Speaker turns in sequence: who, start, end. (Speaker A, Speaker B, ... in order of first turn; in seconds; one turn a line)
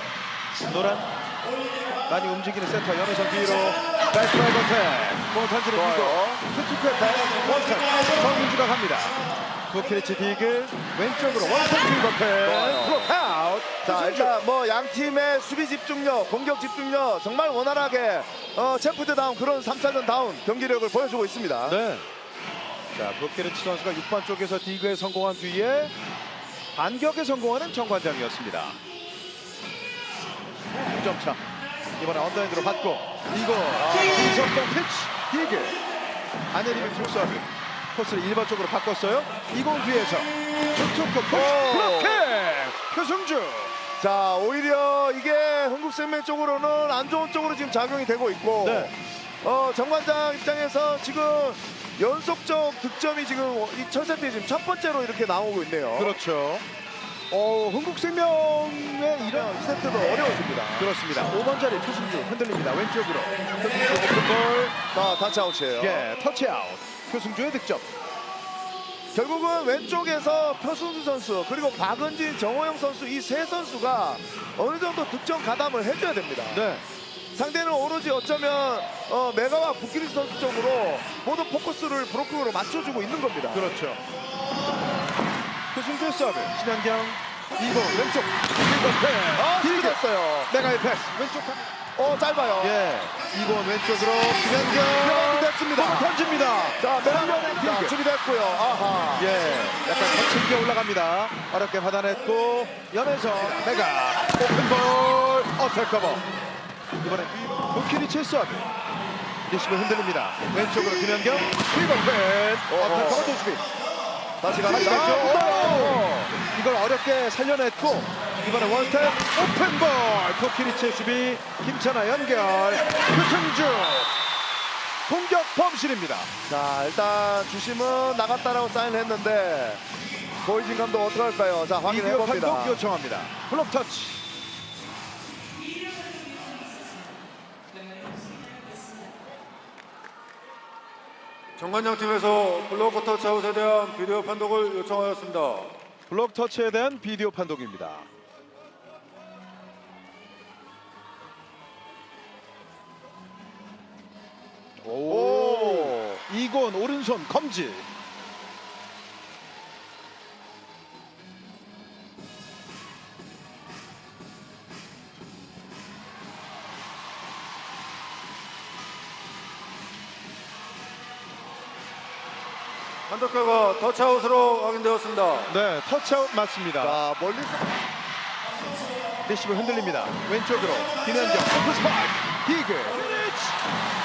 Speaker A: 0.6-1.1
Speaker A: 2.1-9.1
Speaker B: 5.7-6.4
Speaker A: 9.7-14.3
Speaker B: 12.4-13.1
Speaker B: 13.8-21.8
Speaker A: 21.7-22.0
Speaker A: 22.9-25.9
Speaker A: 26.7-28.8
Speaker A: 30.7-31.4
Speaker A: 32.0-35.8
Speaker B: 33.8-34.4
Speaker A: 36.5-43.7
Speaker B: 41.3-42.3
Speaker B: 44.0-56.1
Speaker A: 48.6-48.9
Speaker A: 56.0-56.6
Speaker A: 57.3-59.5
Speaker B: 59.2-60.9
Speaker A: 60.8-63.4
Speaker B: 63.6-66.1
Speaker A: 65.8-67.8
Speaker B: 69.1-76.6
Speaker A: 76.5-76.8
Speaker B: 77.3-83.6
Speaker A: 83.5-84.0
Speaker A: 85.7-90.0
Speaker B: 89.3-90.5
Speaker A: 90.5-91.7
Speaker B: 92.0-92.8
Speaker A: 92.6-98.0
Speaker B: 94.9-96.2
Speaker B: 96.8-99.3
Speaker A: 99.2-106.2
Speaker A: 107.0-108.7
Speaker A: 109.5-113.6
Speaker B: 112.7-113.4
Speaker B: 114.4-116.3
Speaker A: 114.7-124.1
Speaker A: 125.1-126.3
Speaker B: 126.5-129.8
Speaker B: 130.4-132.8
Speaker A: 131.8-134.2
Speaker C: 141.6-145.7
Speaker A: 146.1-148.1
Speaker A: 154.8-157.9
Speaker B: 155.1-156.2
Speaker C: 173.1-175.5
Speaker A: 175.5-177.0
Speaker B: 176.8-177.7
Speaker A: 179.2-183.6